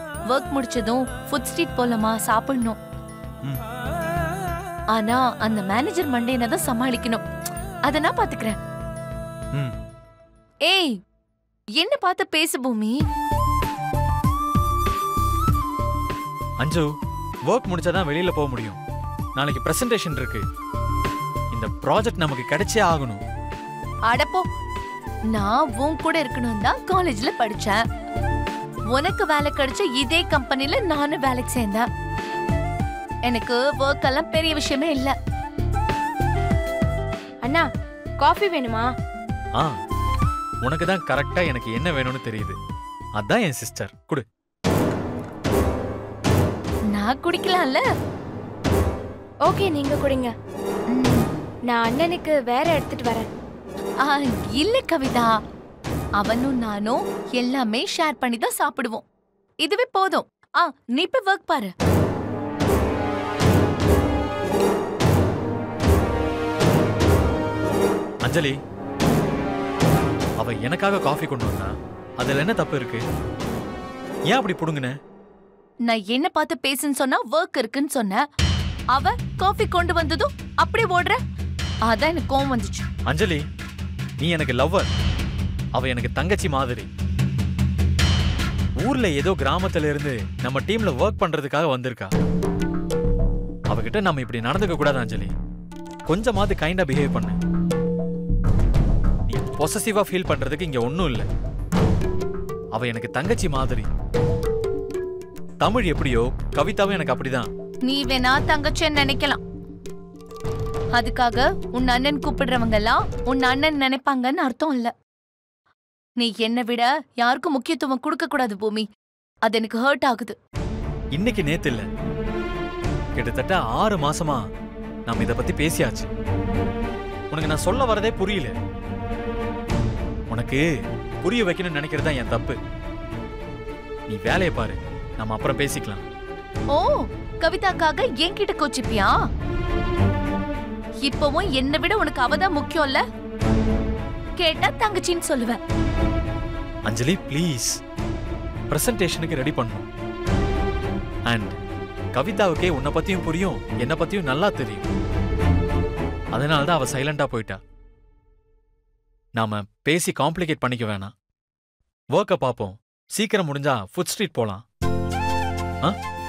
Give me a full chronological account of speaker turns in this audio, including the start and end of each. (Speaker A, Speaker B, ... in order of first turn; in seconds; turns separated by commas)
Speaker A: 0.3-2.8, Speaker A: 4.9-7.2, Speaker A: 7.9-8.6, Speaker A: 10.7-10.9, Speaker A: 11.8-13.0, Speaker B: 16.6-16.9, Speaker B: 17.5-18.8, Speaker B: 19.4-20.4, Speaker B: 21.5-23.2, Speaker A: 24.1-24.4, Speaker A: 25.3-27.8, Speaker A: 28.9-31.9, Speaker A: 33.3-35.1, Speaker C: 38.2-38.9, Speaker B: 40.6-42.6, Speaker B: 43.2-44.2, Speaker A: 46.9-47.8, Speaker C: 49.5-50.3, Speaker A: 50.9-51.3, Speaker C: 51.7-53.3, Speaker A: 54.0-55.3, Speaker A: 56.2-59.0, Speaker A: 59.6-61.7, Speaker B: 68.2-68.6, Speaker B: 70.4-73.0, Speaker B: 74.3-74.9, Speaker A: 75.9-78.2, Speaker A: 78.9-81.2, Speaker A: 81.9-82.8, Speaker B: 83.1-83.4, Speaker B: 84.2-84.9, Speaker B: 85.8-86.9, Speaker B: 88.8-92.1, Speaker B: 93.7-95.3, Speaker B: 96.1-97.4, Speaker B: 99.3-101.3, Speaker B: 102.8-103.9, Speaker B: 105.6-107.5, Speaker A: 107.9-109.4, Speaker A: 111.0-114.9, Speaker A: 116.2-118.9, Speaker A: 119.5-120.4, Speaker B: 121.2-121.9, Speaker B: 123.2-124.4, Speaker B: 125.1-126.1, Speaker B: 127.3-128.6, Speaker B: 130.3-130.7, Speaker B: 131.2-132.6, Speaker B: 134.1-136.0, Speaker A: 136.7-139.1, Speaker A: 141.0-143.0, Speaker A: 144.4-145.6, Speaker B: 146.9-147.8, Speaker B: 148.7-149.9, Speaker B: 151.3-151.6, Speaker B: 152.1-154.8, Speaker B: 156.3-157.6, Speaker B: 159.4-161.1, Speaker B: 162.2-164.6